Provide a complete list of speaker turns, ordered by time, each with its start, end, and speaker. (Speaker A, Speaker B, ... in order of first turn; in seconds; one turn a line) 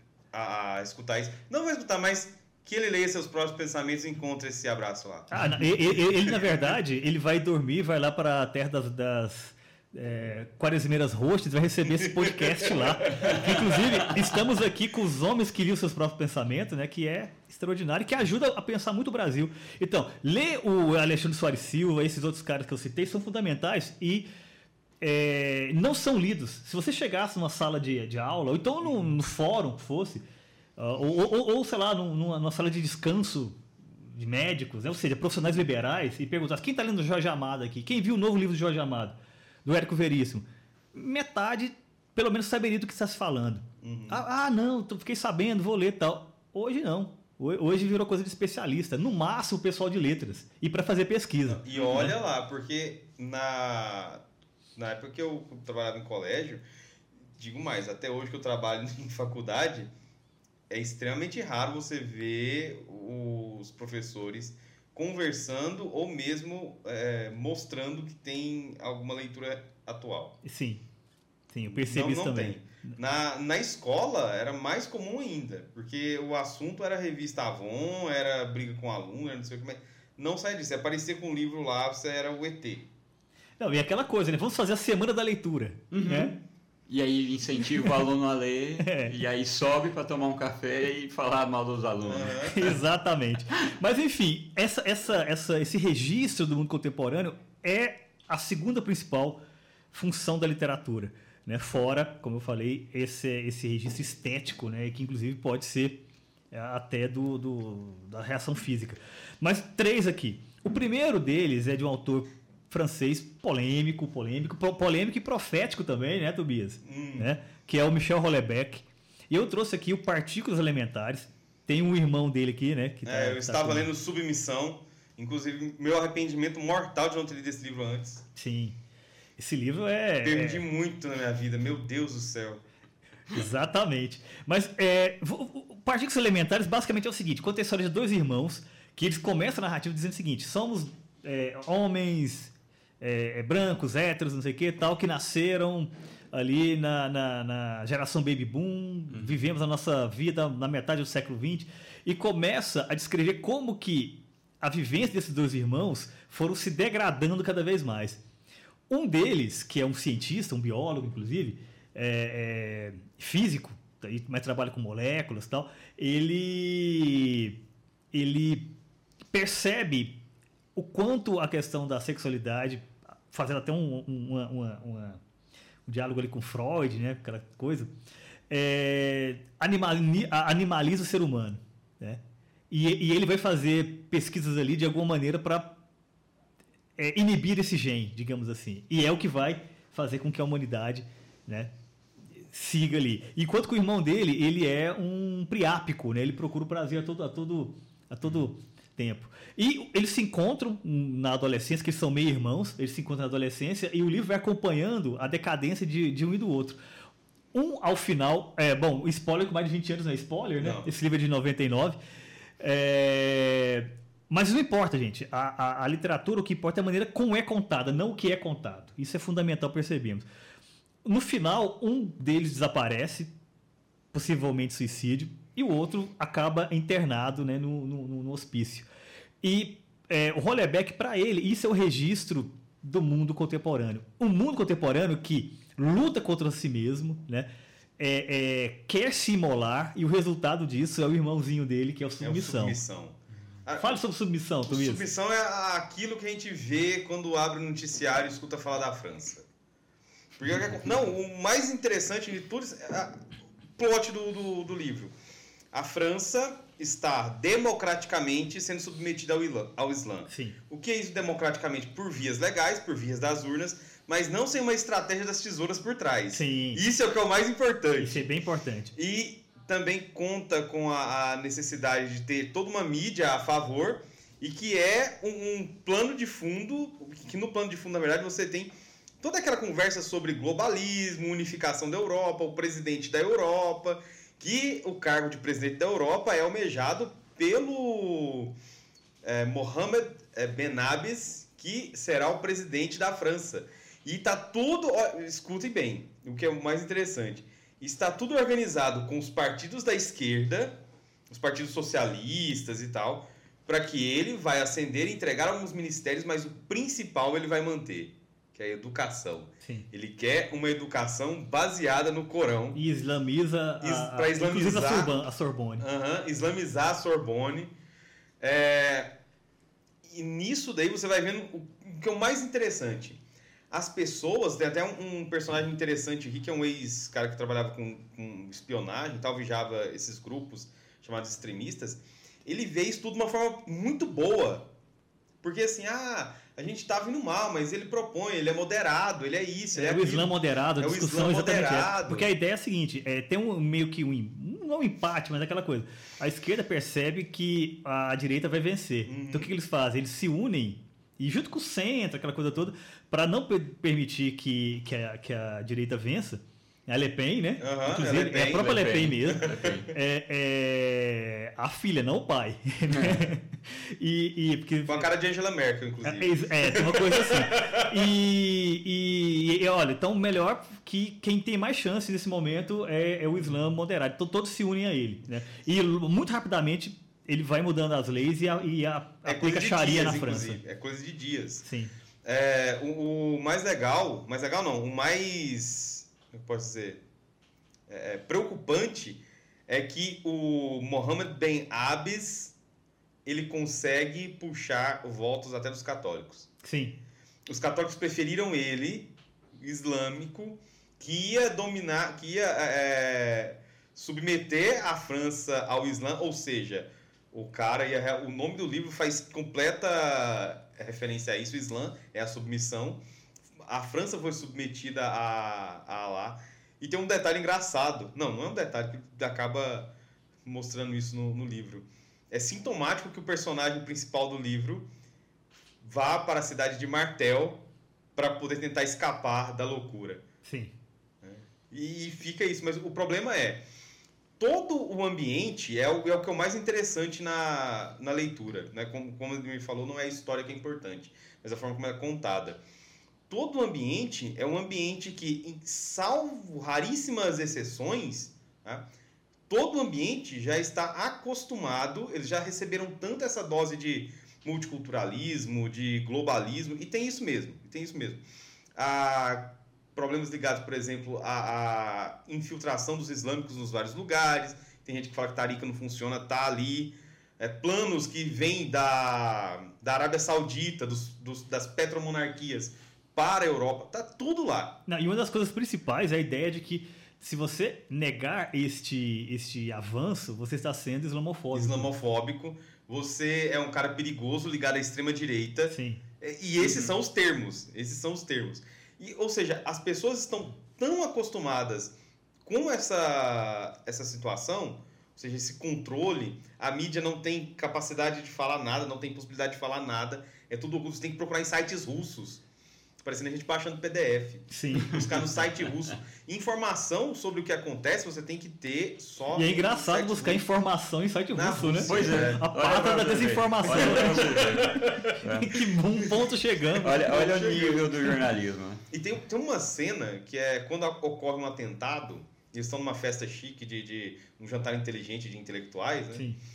Speaker A: 0.3-5.3
Speaker B: 5.3-24.3
Speaker A: 12.1-13.7
Speaker B: 25.0-30.2
Speaker B: 30.8-33.6
Speaker B: 34.1-52.1
Speaker A: 43.8-44.2
Speaker A: 51.5-54.2
Speaker A: 54.8-56.6
Speaker A: 57.4-59.9
Speaker A: 60.7-70.4
Speaker B: 70.4-70.8
Speaker B: 71.5-73.0
Speaker A: 71.7-82.9
Speaker B: 83.6-86.3
Speaker C: 85.9-92.8
Speaker B: 88.8-89.1
Speaker A: 92.1-92.7
Speaker B: 92.4-106.0
Speaker B: 106.5-123.9
Speaker A: 116.8-117.3
Speaker A: 123.0-128.2
Speaker B: 128.4-128.8
Speaker B: 129.4-130.6
Speaker A: 130.2-132.6
Speaker B: 133.3-158.2
Speaker C: 149.1-149.4
Speaker B: 158.9-167.6
Speaker B: 168.1-168.7
Speaker B: 169.3-170.2
Speaker B: 170.8-175.2
Speaker B: 175.9-177.9
Speaker B: 178.5-185.8
Speaker B: 187.0-191.7
Speaker B: 192.5-206.8
Speaker B: 207.5-212.0
Speaker A: 210.6-210.9
Speaker B: 212.6-220.2
Speaker B: 221.1-223.3
Speaker B: 224.1-228.9
Speaker B: 229.4-242.8
Speaker A: 242.2-244.0
Speaker B: 243.8-245.0
Speaker A: 244.6-249.5
Speaker A: 250.4-253.2
Speaker A: 253.8-255.1
Speaker A: 255.7-268.3
Speaker B: 260.3-260.6
Speaker B: 266.3-266.8
Speaker B: 268.0-268.9
Speaker A: 268.9-288.6
Speaker A: 289.2-312.8
Speaker B: 312.8-315.9
Speaker A: 313.8-315.2
Speaker A: 315.8-317.7
Speaker A: 318.4-319.1
Speaker A: 320.0-323.2
Speaker A: 323.7-334.7
Speaker A: 335.4-342.3
Speaker B: 339.8-365.1
Speaker A: 349.1-349.5
Speaker A: 357.6-359.5
Speaker C: 358.6-359.9
Speaker C: 362.9-363.3
Speaker A: 364.9-368.0
Speaker B: 366.0-380.6
Speaker A: 379.2-381.6
Speaker B: 381.6-381.9
Speaker A: 382.2-387.0
Speaker A: 387.9-392.6
Speaker A: 393.2-396.5
Speaker B: 396.6-397.0
Speaker A: 397.5-413.0
Speaker A: 413.6-419.9
Speaker A: 420.4-424.9
Speaker A: 425.8-427.6
Speaker A: 428.1-430.2
Speaker B: 430.4-430.7
Speaker A: 431.2-433.6
Speaker A: 434.4-442.6
Speaker A: 443.3-448.9
Speaker A: 449.5-458.2
Speaker A: 458.8-474.8
Speaker B: 474.9-481.9
Speaker A: 481.5-502.4
Speaker B: 485.7-486.0
Speaker A: 503.0-510.5
Speaker B: 504.5-505.0
Speaker B: 509.3-514.6
Speaker A: 511.3-512.4
Speaker C: 511.8-515.7
Speaker A: 513.7-515.2
Speaker B: 515.2-517.5
Speaker C: 516.8-518.8
Speaker A: 517.0-518.0
Speaker A: 518.9-526.2
Speaker B: 526.1-526.4